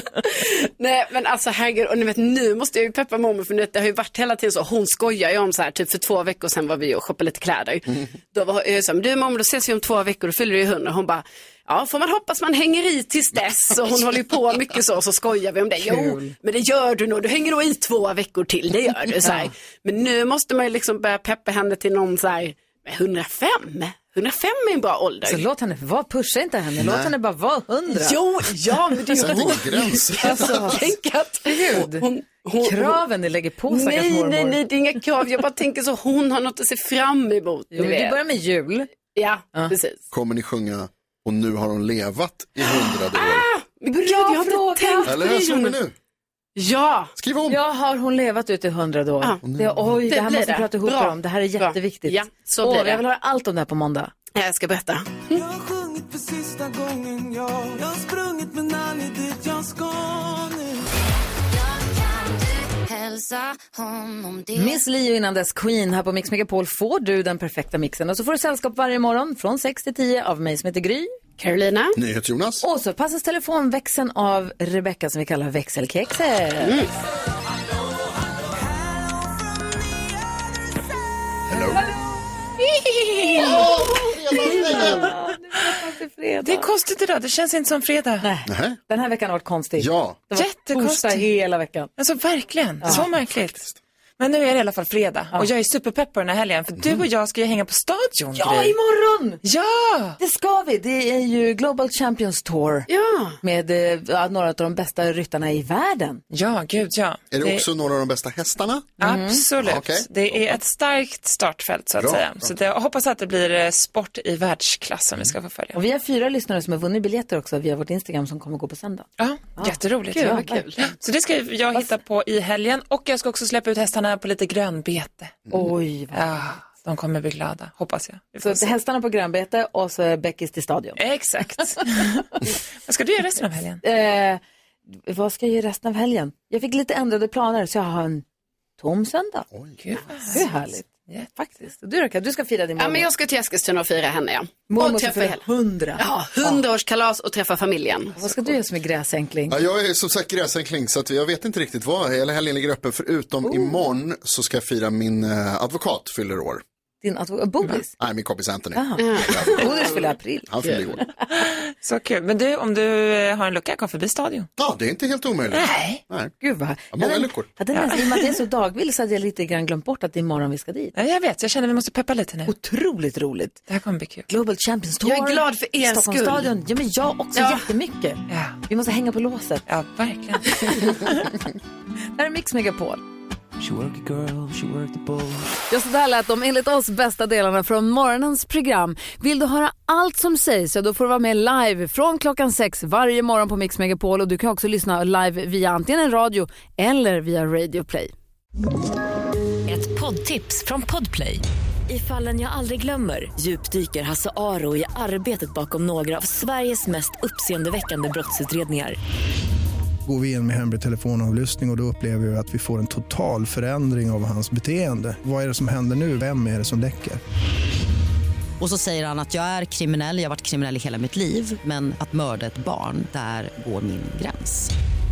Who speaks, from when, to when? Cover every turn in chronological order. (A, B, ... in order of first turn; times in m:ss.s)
0:00.3-0:25.4 A
0:15.8-0:16.3 B
0:19.2-0:19.5 B
0:25.2-0:28.2 B
0:26.8-0:27.1 C
0:27.9-0:33.0 A
0:29.1-0:30.8 C
0:29.3-0:29.6 B
0:30.2-0:30.9 B
0:31.4-0:34.6 B
0:33.7-0:38.2 A
0:37.7-0:38.9 B
0:39.1-0:40.0 A
0:40.1-0:43.5 C
0:42.7-0:45.7 A
0:43.9-0:45.2 B
0:45.0-0:45.9 C
0:46.6-0:47.1 A
0:47.2-0:47.6 C
0:47.5-0:54.1 B
0:49.4-0:50.0 C
0:50.0-0:53.0 A
0:54.4-0:55.4 A
0:55.3-1:00.8 D
1:01.5-1:04.6 E
1:04.5-1:11.1 B
1:11.4-1:12.0 A
1:11.9-1:12.6 C
1:12.6-1:16.8 B
1:16.6-1:16.9 A
1:21.5-1:21.8 C
1:23.2-1:23.6 B
1:23.3-1:25.1 C
1:24.3-1:26.7 B
1:26.4-1:28.3 F
1:28.2-1:31.9 B
1:28.5-1:28.8 C
1:29.8-1:30.2 C
1:30.3-1:31.2 F
1:32.0-1:33.6 F
1:32.8-1:33.1 B
1:33.1-1:33.8 C
1:34.2-1:38.8 F
1:38.3-1:39.4 B
1:39.4-1:40.2 F
1:40.2-1:42.9 B
1:42.9-1:43.4 A
1:43.4-1:46.2 B
1:46.3-1:47.6 F
1:47.3-1:48.9 C
1:49.0-1:55.8 F
1:49.0-1:49.4 B
1:49.6-1:50.1 C
1:52.0-1:52.5 C
1:55.7-2:00.7 B
1:59.2-2:05.4 F
2:00.1-2:00.9 A
2:05.5-2:06.5 B
2:06.1-2:08.7 F
2:08.4-2:11.0 B
2:11.0-2:12.2 F
2:12.8-2:13.8 F
2:13.8-2:14.4 B
2:15.0-2:18.2 B
2:18.8-2:19.4 B
2:19.5-2:20.0 C
2:19.8-2:21.3 F
2:20.3-2:23.1 B
2:22.8-2:25.4 A
2:24.7-2:26.6 B
2:26.0-2:28.2 A
2:28.2-2:29.6 B
2:29.5-2:36.6 C
2:33.4-2:33.8 B
2:37.0-2:37.9 B
2:38.0-2:41.0 C
2:38.7-2:41.1 B
2:39.0-2:40.0 A
2:41.4-2:44.5 F
2:44.6-2:46.3 C
2:45.5-2:46.0 F
2:46.4-2:50.9 B
2:46.9-2:47.5 C
2:47.7-2:48.3 F
2:50.9-2:52.5 F
2:52.5-2:53.6 B
2:53.7-2:54.3 F
2:54.3-2:59.6 B
2:55.0-2:56.5 A
2:57.3-2:57.6 A
2:58.3-2:58.6 F
2:59.7-3:01.2 F
3:02.2-3:03.0 B
3:05.7-3:18.1 B
3:19.7-3:29.0 E
3:30.1-3:37.2 G
3:38.6-3:44.7 H